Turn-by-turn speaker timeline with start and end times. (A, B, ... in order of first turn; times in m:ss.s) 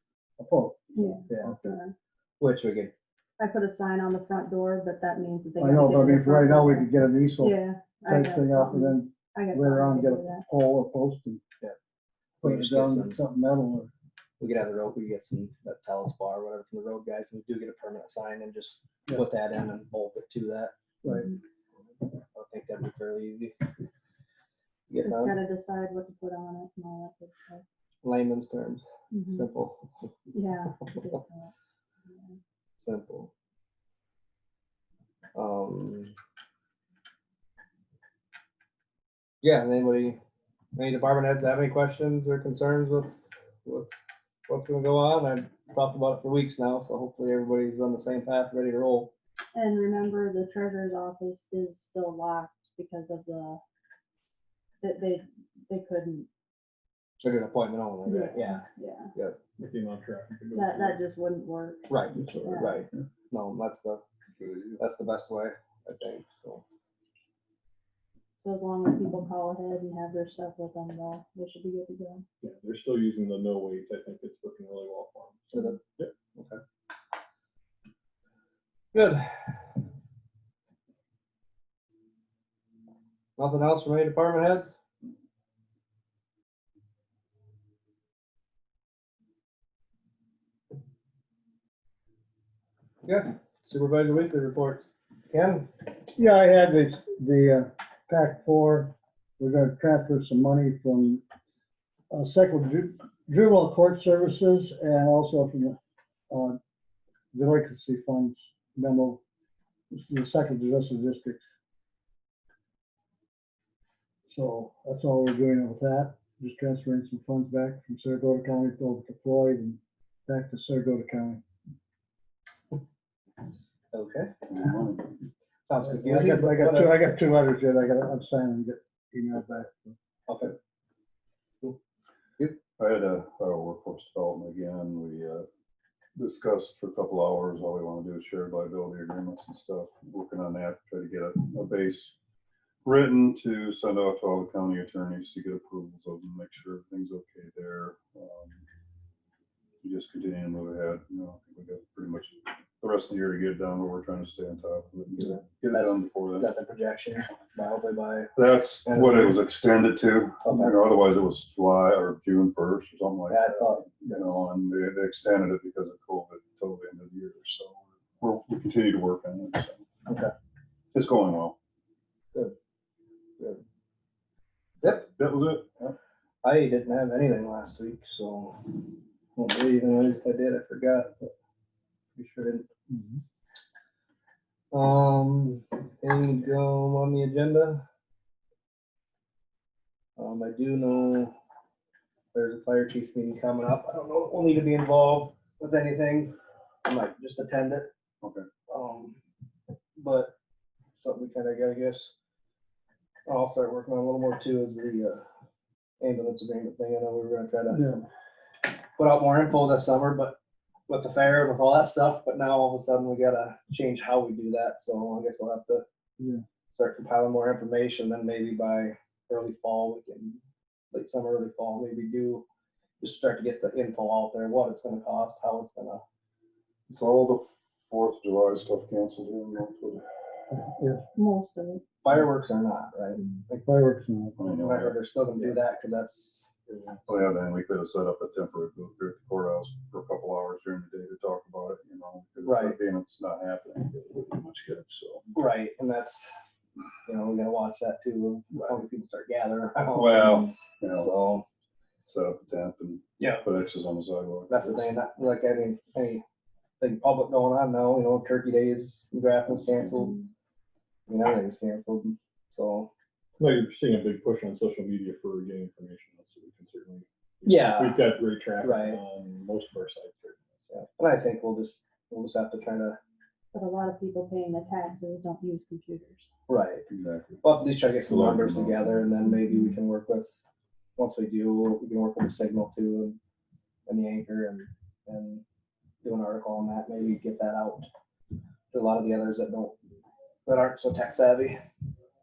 0:00.4-0:01.8 A
0:01.0-0:01.9 B
0:01.3-0:01.6 C
0:02.4-0:02.9 C
0:03.4-0:10.4 B
0:05.6-0:11.4 A
0:12.4-0:13.9 A
0:12.4-0:13.2 C
0:14.4-0:20.7 C
0:21.0-0:21.3 A
0:22.3-0:23.6 C
0:24.9-0:25.4 C
0:25.0-0:27.6 B
0:28.0-0:29.9 C
0:29.1-0:29.4 B
0:30.3-0:31.5 B
0:32.1-0:32.4 B
0:32.8-0:33.3 C
0:35.3-0:36.1 C
0:39.4-0:40.2 C
0:40.7-0:43.9 C
0:44.5-0:49.1 C
0:49.5-0:53.6 B
0:54.8-0:56.3 B
0:57.2-0:58.6 C
0:58.0-0:59.1 B
0:59.6-1:01.0 D
1:00.5-1:02.8 B
1:01.9-1:04.0 C
1:04.4-1:04.8 E
1:04.8-1:06.6 C
1:08.4-1:12.2 B
1:12.4-1:16.1 D
1:15.5-1:15.8 C
1:16.4-1:16.6 C
1:18.9-1:19.3 C
1:23.4-1:24.7 C
1:33.0-1:35.7 C
1:36.2-1:41.2 A
1:42.1-1:45.8 A
1:46.3-1:46.6 A
1:47.3-1:49.2 A
1:49.9-1:51.4 A
1:54.3-2:01.4 A
2:03.9-2:04.5 C
2:04.5-2:05.1 E
2:05.6-2:07.0 C
2:05.8-2:10.0 A
2:10.3-2:10.5 C
2:12.8-2:15.4 E
2:16.2-2:22.2 E
2:22.8-2:28.6 E
2:29.8-2:36.5 E
2:35.2-2:38.3 C
2:38.4-2:49.8 E
2:38.8-2:39.4 C
2:40.4-2:40.8 C
2:43.3-2:44.4 C
2:50.1-2:50.3 C
2:50.9-2:51.5 E
2:54.8-2:55.9 E
2:56.4-3:01.3 C
3:02.2-3:02.6 C
3:02.9-3:03.2 A
3:04.7-3:07.8 C
3:10.2-3:11.3 C
3:12.3-3:17.9 C
3:18.7-3:19.2 C
3:20.0-3:20.3 C
3:20.9-3:22.1 C
3:23.3-3:25.2 C
3:26.0-3:27.8 C
3:27.7-3:28.0 A
3:29.0-3:30.4 C
3:30.9-3:35.8 C
3:36.7-3:40.4 C
3:40.9-3:42.4 C
3:43.0-3:46.0 C
3:46.9-3:50.0 E
3:50.5-3:51.0 A
3:51.1-3:51.8 B
3:52.0-3:53.6 C
3:53.5-3:54.4 A
3:54.4-3:55.0 E
3:54.5-3:56.5 C
3:55.4-3:55.8 D
3:56.6-3:57.2 D
3:57.1-4:05.2 E
4:02.4-4:02.8 C
4:05.3-4:06.3 C
4:07.0-4:11.4 C
4:09.9-4:11.1 E
4:12.0-4:14.9 E
4:13.2-4:13.4 C
4:14.5-4:16.2 C
4:16.8-4:20.2 C
4:19.5-4:20.1 E
4:21.1-4:22.9 C
4:23.4-4:30.4 D
4:27.4-4:28.0 C
4:28.6-4:29.0 C
4:30.7-4:33.0 C
4:33.5-4:36.3 B
4:36.5-4:36.9 C
4:36.9-4:39.3 E
4:37.4-4:40.3 C
4:41.0-4:43.2 C
4:43.9-4:45.4 C
4:46.0-4:47.9 C
4:48.7-4:49.8 C
4:50.4-4:51.6 C